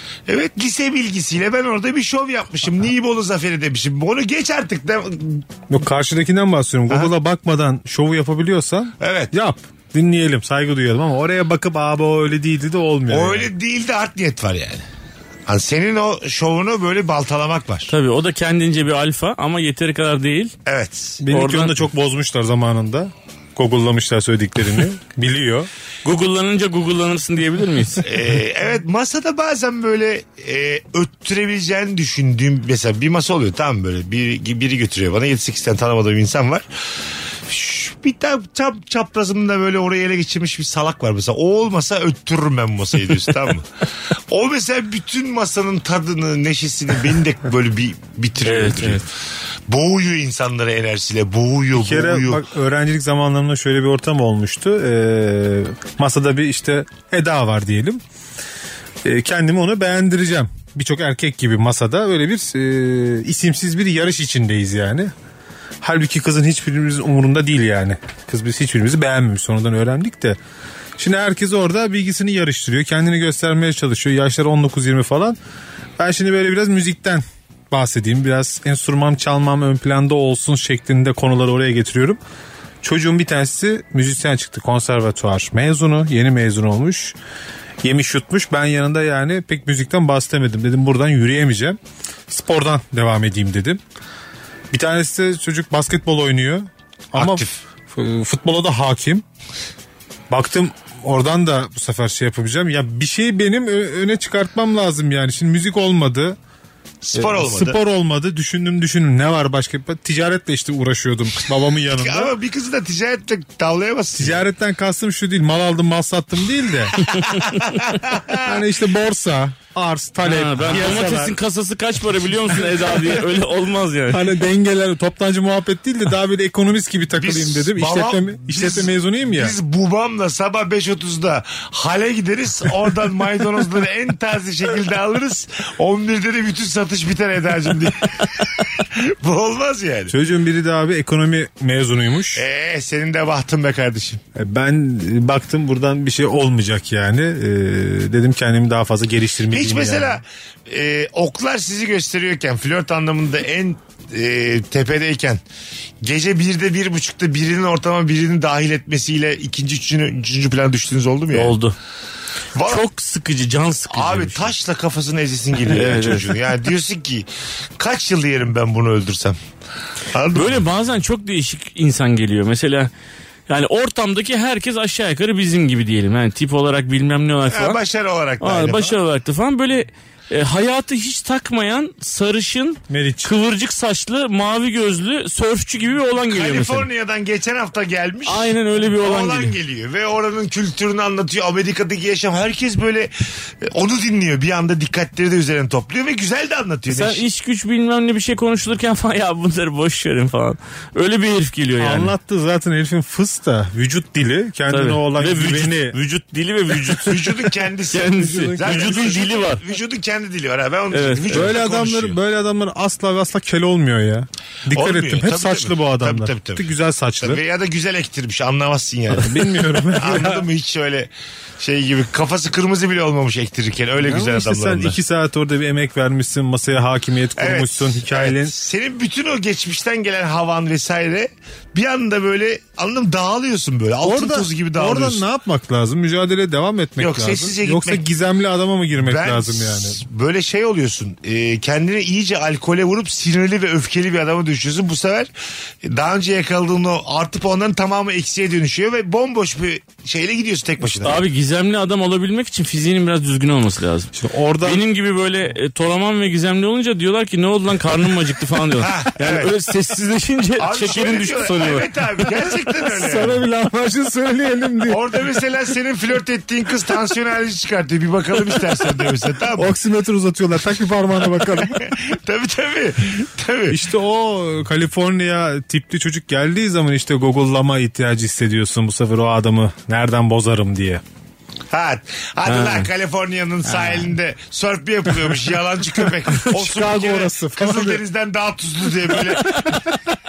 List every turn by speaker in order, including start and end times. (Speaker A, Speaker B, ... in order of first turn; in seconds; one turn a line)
Speaker A: 0.3-5.5
Speaker B: 5.7-13.5
Speaker A: 9.0-9.3
Speaker A: 13.1-14.8
Speaker A: 15.4-17.9
Speaker C: 17.9-20.5
Speaker A: 20.6-21.2
Speaker B: 21.2-25.7
Speaker C: 21.3-21.8
Speaker C: 26.0-28.0
Speaker A: 28.0-36.6
Speaker A: 37.5-43.7
Speaker A: 44.3-49.1
Speaker C: 48.4-49.0
Speaker A: 49.7-52.4
Speaker B: 51.8-58.0
Speaker B: 59.0-65.1
Speaker B: 65.8-70.4
Speaker B: 71.0-75.4
Speaker B: 76.0-82.2
Speaker B: 82.8-87.2
Speaker B: 87.8-91.8
Speaker B: 92.3-93.8
Speaker B: 94.7-99.2
Speaker A: 97.1-97.6
Speaker B: 100.3-106.4
Speaker A: 107.0-107.8
Speaker B: 107.1-112.3
Speaker A: 112.0-114.4
Speaker B: 114.1-116.9
Speaker A: 117.0-118.5
Speaker C: 117.1-117.5
Speaker B: 118.4-121.3
Speaker C: 120.2-124.2
Speaker A: 120.7-121.1
Speaker B: 124.1-129.6
Speaker A: 127.2-140.1
Speaker B: 140.1-142.4
Speaker A: 142.3-144.2
Speaker B: 144.3-150.2
Speaker A: 149.5-155.4
Speaker A: 156.0-161.5
Speaker C: 161.3-161.7
Speaker A: 162.5-162.8
Speaker C: 162.6-164.5
Speaker A: 163.9-167.3
Speaker C: 165.7-166.3
Speaker A: 167.8-169.4
Speaker A: 170.1-170.7
Speaker C: 170.3-172.9
Speaker C: 173.5-177.8
Speaker A: 177.5-179.0
Speaker C: 178.4-186.9
Speaker B: 182.9-183.3
Speaker A: 186.3-193.1
Speaker C: 188.2-189.5
Speaker A: 193.6-197.2
Speaker C: 196.9-202.1
Speaker B: 201.8-206.0
Speaker C: 204.7-207.3
Speaker A: 207.0-212.2
Speaker C: 207.9-209.6
Speaker B: 208.1-209.2
Speaker C: 210.9-211.5
Speaker B: 211.3-217.4
Speaker A: 214.7-221.1
Speaker B: 219.1-220.4
Speaker A: 221.6-225.0
Speaker B: 224.0-228.5
Speaker A: 227.4-235.2
Speaker B: 234.0-240.0
Speaker A: 237.0-238.0
Speaker A: 239.0-245.3
Speaker A: 245.8-251.2
Speaker C: 251.0-261.8
Speaker B: 254.1-254.8
Speaker A: 258.8-259.5
Speaker A: 260.6-263.4
Speaker B: 262.9-265.2
Speaker A: 264.9-269.7
Speaker B: 269.6-271.9
Speaker A: 271.4-273.8
Speaker B: 273.7-281.0
Speaker A: 281.7-289.9
Speaker C: 282.5-282.9
Speaker B: 286.5-288.0